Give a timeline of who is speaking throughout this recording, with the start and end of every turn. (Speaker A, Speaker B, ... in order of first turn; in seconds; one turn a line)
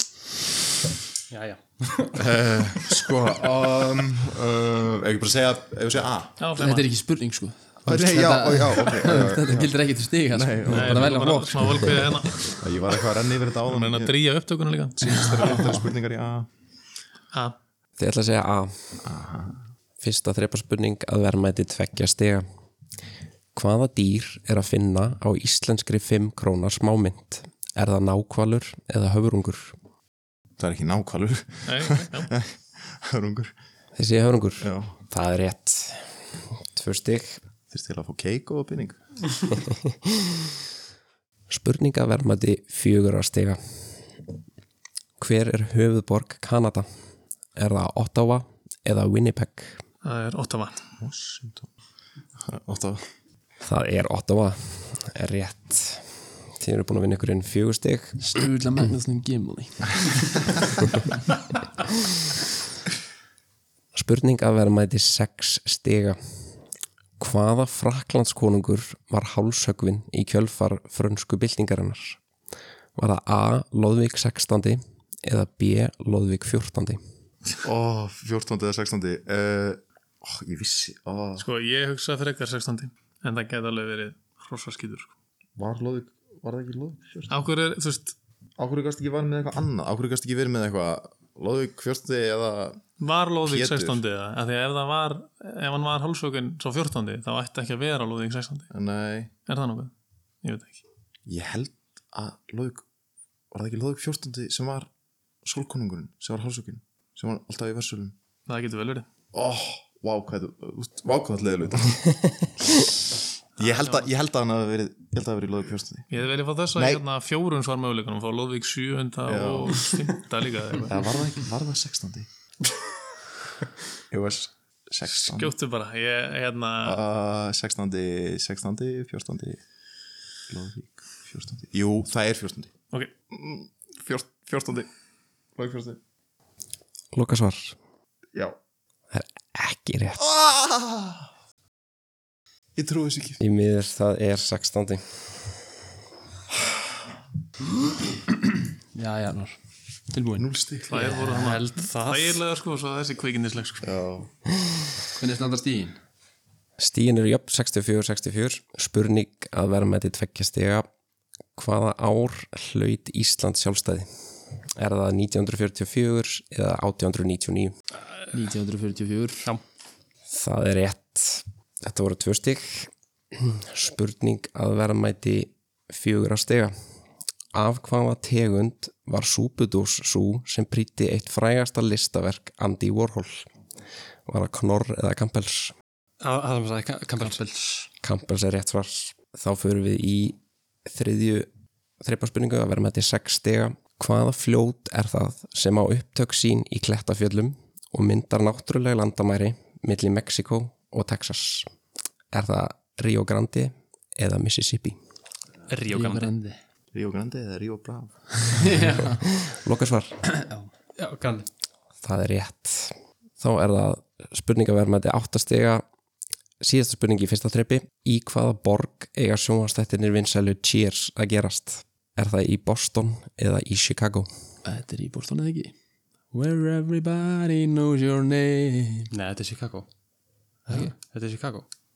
Speaker A: 1.3-2.3
Speaker B: 2.2-6.3
Speaker C: 6.4-6.9
Speaker D: 6.6-12.3
Speaker B: 7.9-9.7
Speaker B: 10.3-11.2
Speaker C: 10.7-12.5
Speaker B: 12.6-14.2
Speaker C: 13.7-15.6
Speaker B: 15.0-16.5
Speaker E: 18.0-18.7
Speaker B: 19.0-19.6
Speaker E: 20.0-22.4
Speaker E: 23.6-29.8
Speaker B: 30.6-33.5
Speaker C: 31.7-32.3
Speaker E: 34.0-37.4
Speaker B: 34.6-34.9
Speaker B: 37.7-39.0
Speaker E: 39.6-40.5
Speaker E: 41.5-43.8
Speaker E: 45.2-46.9
Speaker E: 47.6-49.8
Speaker C: 50.0-50.8
Speaker B: 51.0-51.7
Speaker B: 52.4-53.0
Speaker E: 53.6-58.2
Speaker D: 58.2-60.1
Speaker E: 63.9-66.2
Speaker E: 67.2-72.2
Speaker E: 73.0-77.0
Speaker B: 77.6-81.5
Speaker C: 81.4-85.1
Speaker B: 85.6-87.4
Speaker C: 87.3-88.2
Speaker B: 88.6-92.8
Speaker C: 93.0-98.7
Speaker B: 93.5-94.0
Speaker B: 98.7-99.3
Speaker C: 99.5-100.8
Speaker B: 101.3-102.8
Speaker B: 103.5-104.9
Speaker B: 105.5-108.2
Speaker C: 108.5-109.1
Speaker B: 109.3-113.0
Speaker B: 113.6-116.1
Speaker C: 113.6-114.1
Speaker C: 116.1-121.0
Speaker B: 116.8-117.0
Speaker B: 119.3-120.1
Speaker B: 120.9-122.3
Speaker B: 124.1-125.6
Speaker C: 125.1-127.0
Speaker B: 126.8-129.6
Speaker B: 130.5-132.7
Speaker B: 133.3-134.9
Speaker B: 135.6-136.0
Speaker E: 137.1-137.8
Speaker E: 139.1-140.2
Speaker B: 140.2-141.3
Speaker B: 142.8-143.4
Speaker E: 143.4-145.2
Speaker D: 148.9-149.6
Speaker D: 150.1-151.6
Speaker B: 150.4-151.1
Speaker C: 150.9-153.9
Speaker A: 151.3-152.4
Speaker B: 153.8-154.3
Speaker D: 155.2-156.0
Speaker E: 156.8-160.9
Speaker E: 161.6-164.1
Speaker E: 164.8-167.7
Speaker D: 168.3-169.5
Speaker E: 170.3-176.7
Speaker E: 177.5-183.5
Speaker E: 184.3-185.7
Speaker A: 186.2-187.5
Speaker D: 187.2-187.9
Speaker E: 188.0-191.5
Speaker E: 192.0-201.7
Speaker E: 202.3-205.0
Speaker A: 205.7-206.3
Speaker D: 205.9-206.6
Speaker B: 206.9-208.5
Speaker D: 208.5-209.2
Speaker E: 209.1-210.2
Speaker D: 210.3-210.7
Speaker A: 211.0-211.5
Speaker E: 212.0-215.8
Speaker E: 216.6-224.3
Speaker D: 224.7-225.7
Speaker D: 226.3-229.1
Speaker A: 229.1-229.9
Speaker A: 230.7-231.7